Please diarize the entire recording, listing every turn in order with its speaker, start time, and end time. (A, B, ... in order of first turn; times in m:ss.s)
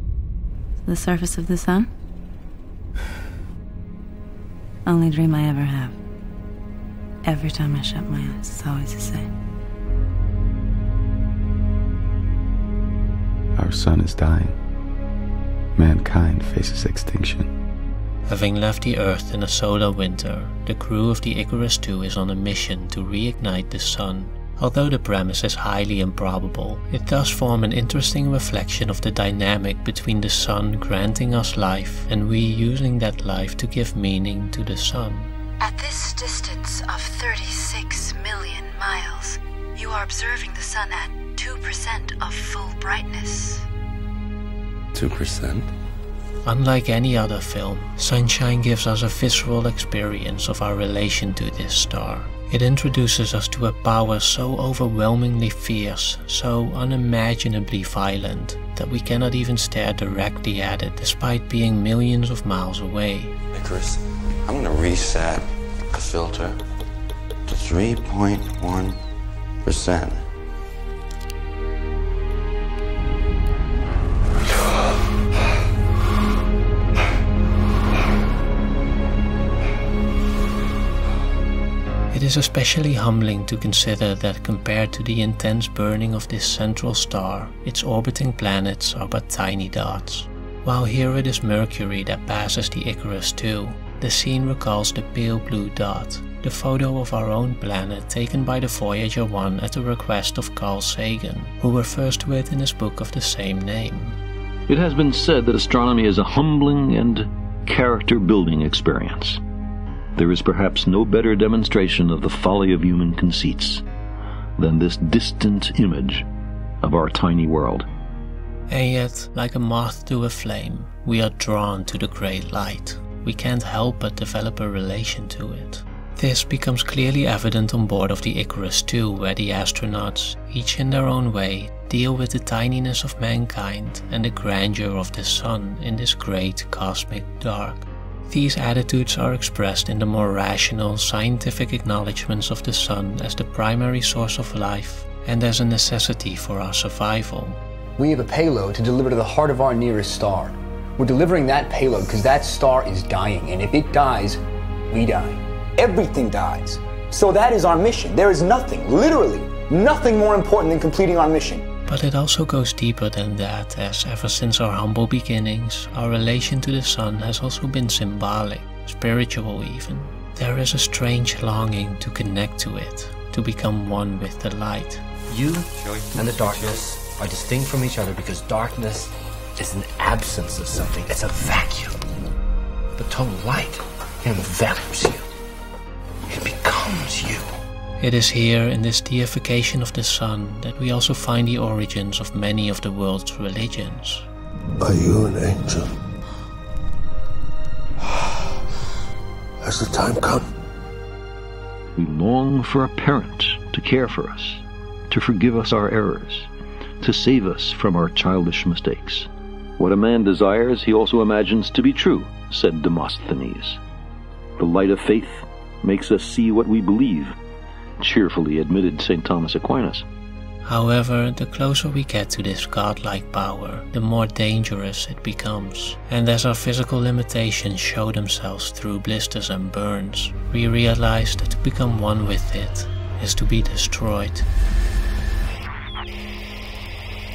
0:00.8-0:01.9 A
0:04.9-0:06.0 A
0:07.2-0:09.3 A
0:13.6-0:14.6 B
0:15.8-0:17.5 B
0:18.3-0:35.3 C
0:35.6-0:43.7 D
0:45.0-0:45.6 E
0:46.4-1:03.3 C
1:03.5-1:06.6 E
1:07.5-1:09.0 E
1:09.6-1:10.2 E
1:22.1-1:44.2 C
1:44.7-1:49.4 F
1:50.2-1:53.8 F
1:54.6-1:56.2 F
1:56.8-1:57.9 F
1:58.7-2:27.6 C
2:28.0-2:34.4 G
2:34.9-2:35.4 G
2:35.8-2:41.6 H
2:41.9-2:55.0 C
2:55.3-3:02.0 I
3:03.0-3:05.2 I
3:06.3-3:07.5 I
3:08.0-3:14.3 C
3:14.8-3:15.9 J
3:19.6-3:20.5 J
3:22.0-3:26.5 F
3:27.0-3:33.8 F
3:34.6-3:37.3 F
3:38.0-3:40.0 F
3:40.6-3:54.5 C